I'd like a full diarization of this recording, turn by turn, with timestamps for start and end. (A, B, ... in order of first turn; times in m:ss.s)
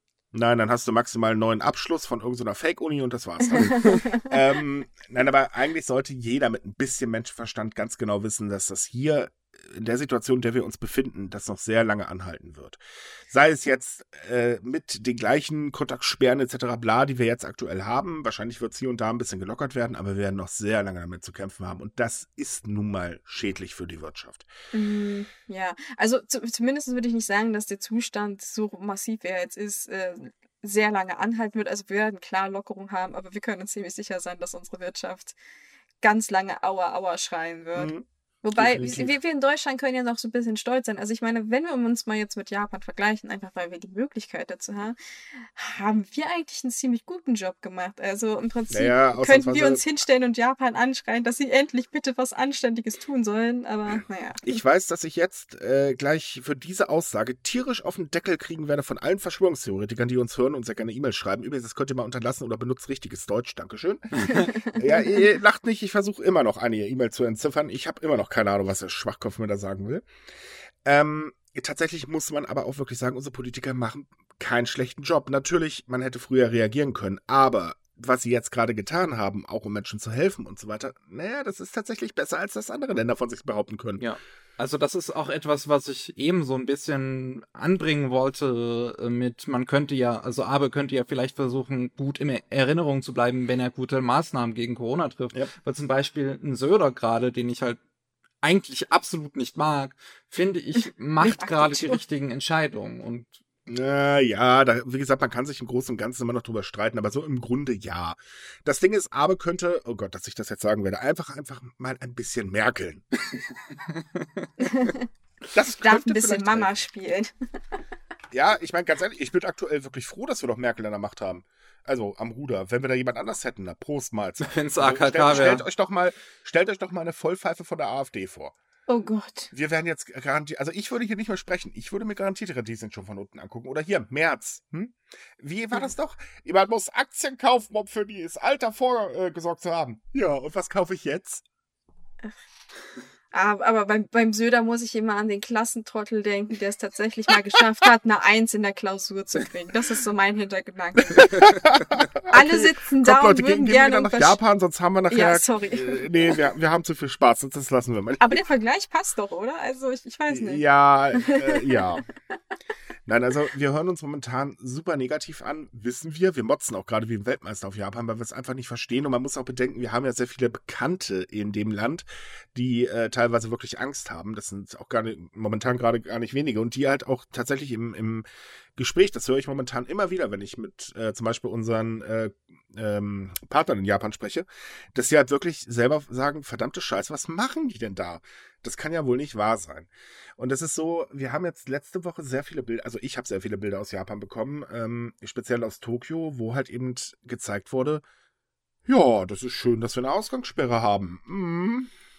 0:00.3-0:24.5 A
0:03.4-0:04.3 B
0:24.7-0:35.4 B
0:36.0-0:37.9 B
0:37.7-0:39.1 A
0:38.4-0:54.6 B
0:48.7-0:49.8 A
0:54.4-1:10.0 A
1:04.2-1:04.4 C
1:04.3-1:05.2 B
1:10.8-1:24.0 A
1:24.0-1:37.8 C
1:38.4-1:43.4 C
1:40.8-1:42.0 B
1:43.7-1:53.0 A
1:53.8-1:54.5 C
1:54.6-1:55.1 B
1:55.5-1:56.7 A
1:55.7-1:57.3 B
1:58.3-2:08.5 A
2:04.4-2:05.6 C
2:08.9-2:09.5 B
2:09.5-2:21.4 A
2:23.3-2:31.5 B
2:31.1-2:38.5 A
2:32.3-2:34.4 B
2:35.1-2:36.4 B
2:38.2-2:40.6 B
2:40.3-2:42.0 A
2:41.2-2:42.0 B
2:43.0-2:58.2 A
2:58.8-3:18.0 A
3:18.8-3:21.9 A